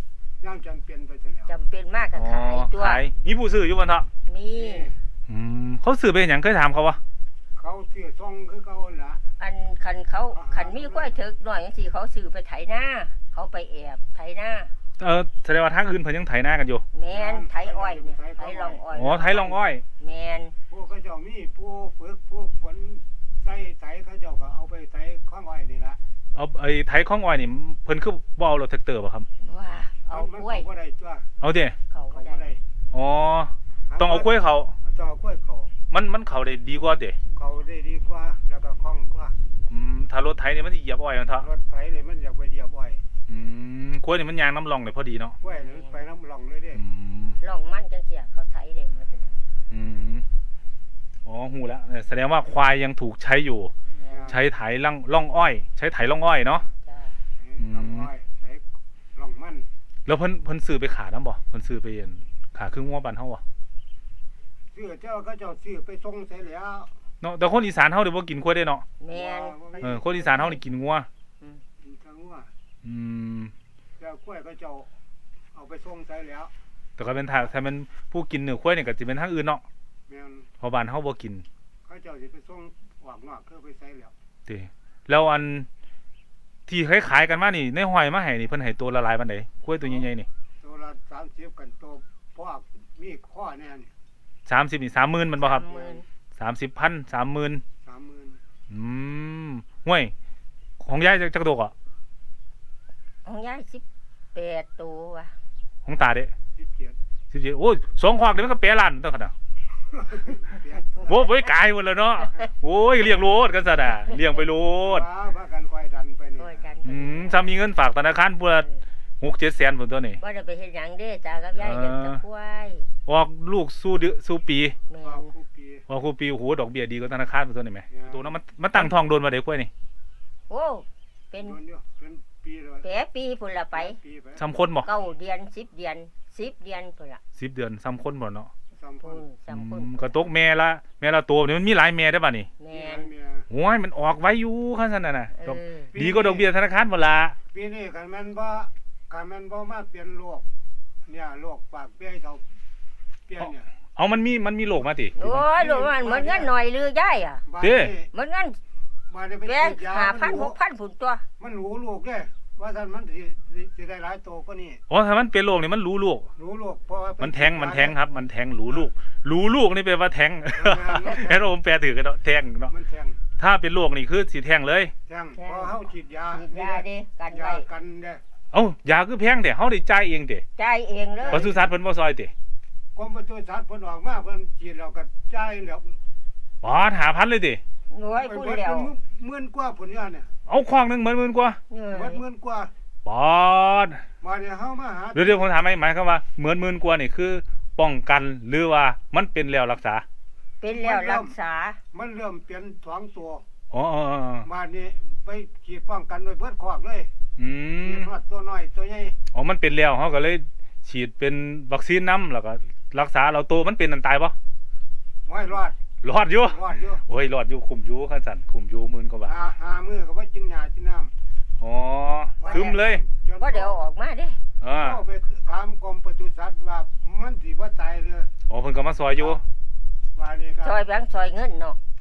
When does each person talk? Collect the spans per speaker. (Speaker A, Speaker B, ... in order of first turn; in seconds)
Speaker A: 0.4-1.5, 4.5-5.0, 7.5-9.2, 10.3-11.2, 17.1-19.4, 20.7-26.0, 30.1-31.3, 32.1-32.6, 33.9-35.7, 37.4-39.4, 41.4-43.0, 45.4-46.8, 54.1-54.4, 57.4-58.6, 59.1-59.7, 64.7-66.9, 69.1-70.4, 71.8-72.5, 74.0-74.9, 75.5-76.5, 80.1-80.5, 81.8-84.1, 89.8-90.1, 90.6-93.9, 95.5-96.0, 97.8-98.4, 106.6-107.0, 109.9-111.4, 114.8-116.8, 125.0-125.9, 127.9-128.3, 131.3-132.9, 133.7-134.4, 138.8-139.3, 142.7-143.5, 145.9-146.5, 147.5-150.4, 151.1-152.4, 153.3-153.7, 155.3-156.5, 157.5-158.1, 159.1-160.6, 161.4-164.8, 166.4-168.0, 170.5-171.5, 172.7-173.2, 175.1-178.2, 181.2-181.7, 183.0-186.0, 188.1-190.3, 191.9-192.7, 194.2-195.5, 200.7-201.3, 201.9-203.4, 204.4-207.1, 207.8-209.2, 215.3-215.8, 216.4-217.0, 219.2-221.1, 222.4-223.8, 224.8-228.3, 230.2-230.8
Speaker B: 1.5-3.0, 4.3-5.0, 9.4-14.7, 16.9-20.6, 29.4-30.7, 31.9-32.5, 45.4-46.0, 47.4-49.4, 53.9-54.4, 56.9-57.2, 69.0-70.6, 95.4-96.1, 103.2-105.4, 116.4-117.5, 120.2-122.9, 124.9-125.3, 130.5-131.6, 132.8-134.0, 134.8-137.2, 139.0-140.3, 142.6-143.1, 145.3-145.9, 155.2-157.4, 158.1-158.6, 159.4-161.3, 175.4-177.7, 180.6-181.5, 187.9-188.9, 191.7-192.2, 200.6-201.8, 222.4-222.8, 223.4-224.4, 230.6-231.8
Speaker C: 2.1-4.1, 5.3-7.0, 15.0-16.9, 18.9-19.8, 26.4-29.3, 31.4-31.8, 32.9-34.7, 35.9-37.2, 39.7-41.5, 43.3-45.4, 46.8-47.4, 49.7-50.3, 51.2-53.7, 54.3-56.6, 57.6-58.1, 60.1-63.4, 67.2-68.9, 69.8-71.1, 72.8-73.5, 77.0-79.6, 80.6-81.5, 84.5-85.7, 86.7-90.3, 94.5-95.7, 96.4-97.6, 98.7-100.1, 100.8-101.7, 105.9-106.3, 107.3-109.3, 111.0-115.1, 116.8-118.7, 119.2-120.2, 121.6-122.2, 123.1-124.8, 125.9-129.7, 134.4-134.9, 137.4-138.5, 139.5-142.5, 143.5-147.4, 153.4-155.4, 157.6-158.0, 164.9-166.3, 167.2-172.7, 173.4-174.9, 178.5-180.4, 181.3-182.3, 186.6-187.6, 190.5-191.6, 193.1-194.0, 195.1-200.1, 203.7-204.5, 207.4-208.1, 209.3-214.4, 216.0-219.4, 221.6-223.0, 224.6-225.0, 228.5-229.4